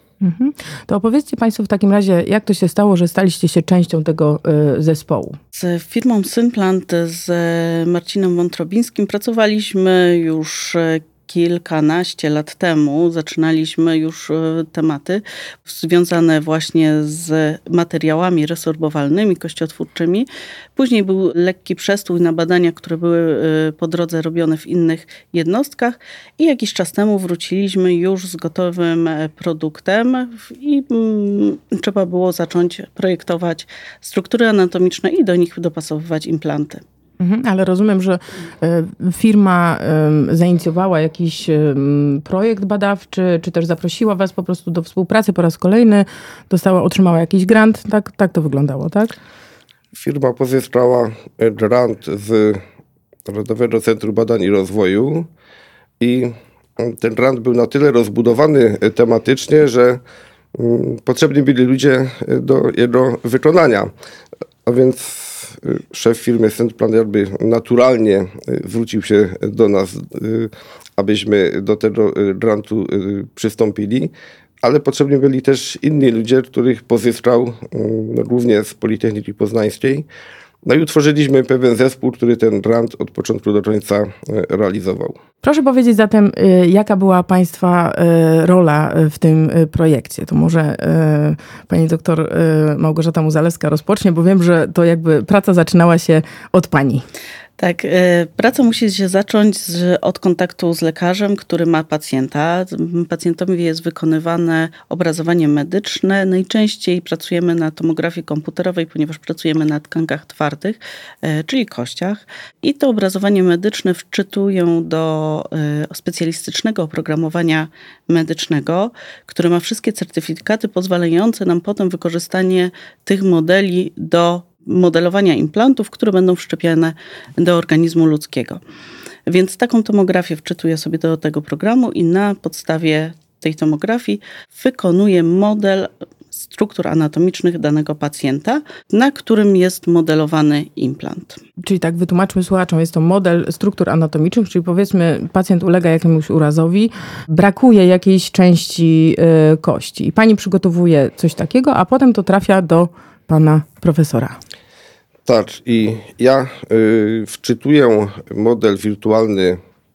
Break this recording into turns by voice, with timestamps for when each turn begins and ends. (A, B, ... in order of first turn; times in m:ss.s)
0:00.2-0:05.4 A
0:05.5-0:36.8 B
0:37.2-0:49.2 A
0:49.9-0:52.6 C
0:53.2-0:55.3 C
0:56.0-1:00.0 C
1:00.5-1:03.9 C
1:04.6-1:14.1 C
1:14.6-1:20.1 C
1:20.6-1:25.2 C
1:25.4-1:37.0 A
1:37.6-2:08.6 B
2:09.3-2:21.4 B
2:21.6-2:34.4 A
2:35.2-2:39.6 C